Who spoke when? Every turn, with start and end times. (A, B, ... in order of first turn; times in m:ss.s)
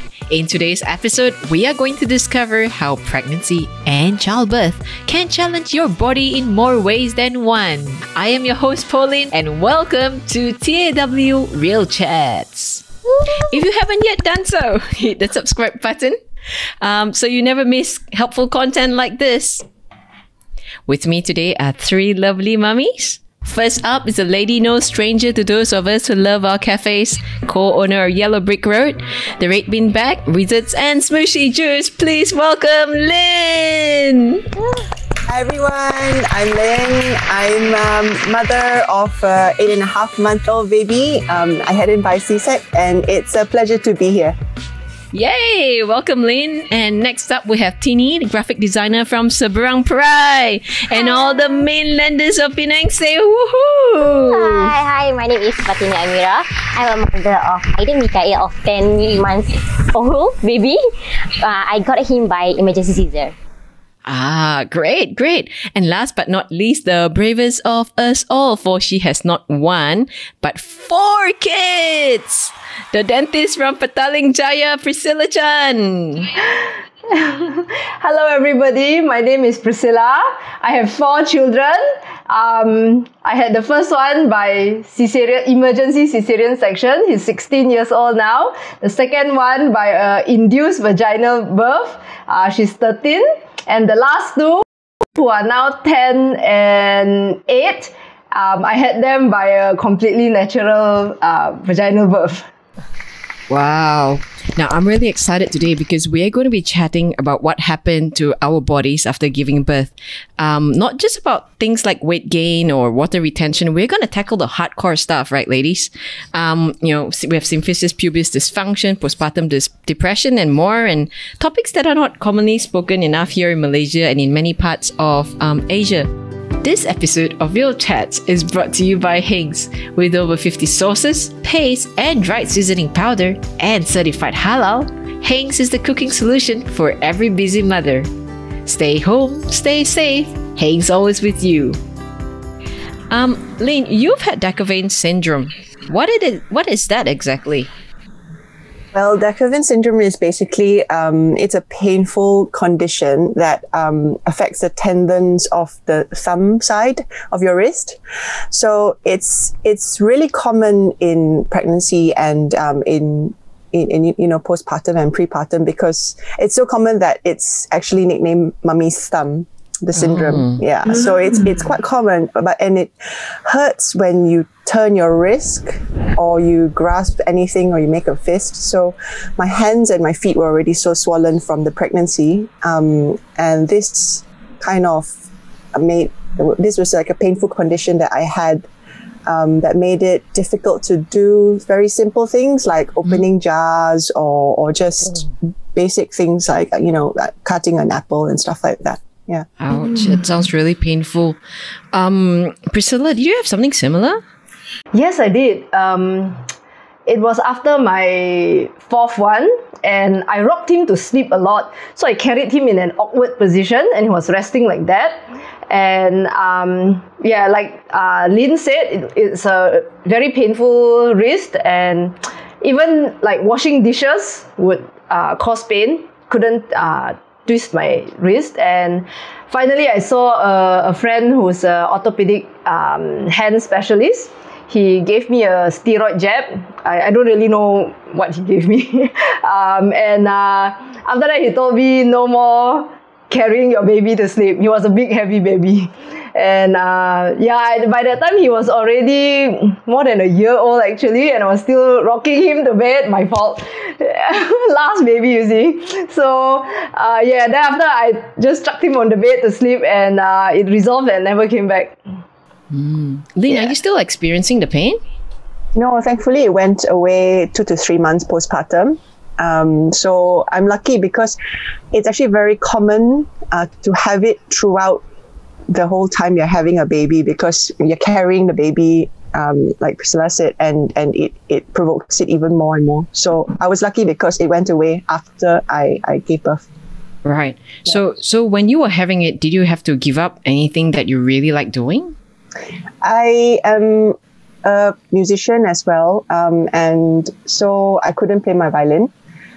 0:00.3-0:16.2 A
0:16.8-0:19.6 A
0:20.9-0:34.4 A
0:35.3-0:44.4 B
0:45.1-0:54.7 A
0:50.9-0:51.6 C
0:54.0-1:00.8 C
1:01.4-1:03.3 C
1:04.0-1:16.3 A
1:16.4-1:42.5 D
1:43.5-2:06.1 A
2:06.6-2:18.1 A
2:18.6-2:21.8 A
2:23.1-2:27.7 A
2:28.9-2:38.0 B
2:38.5-3:05.2 B
2:50.0-2:50.6 A
3:05.7-3:08.6 B
3:09.3-3:19.5 B
3:19.6-3:21.4 A
3:21.9-3:24.2 A
3:24.9-3:26.4 D
3:27.0-4:22.0 D
4:22.7-4:25.0 A
4:23.5-4:23.7 B
4:25.8-4:31.4 B
4:31.9-4:35.0 B
4:35.7-4:46.6 B
4:47.2-4:52.1 A
4:53.0-4:59.1 B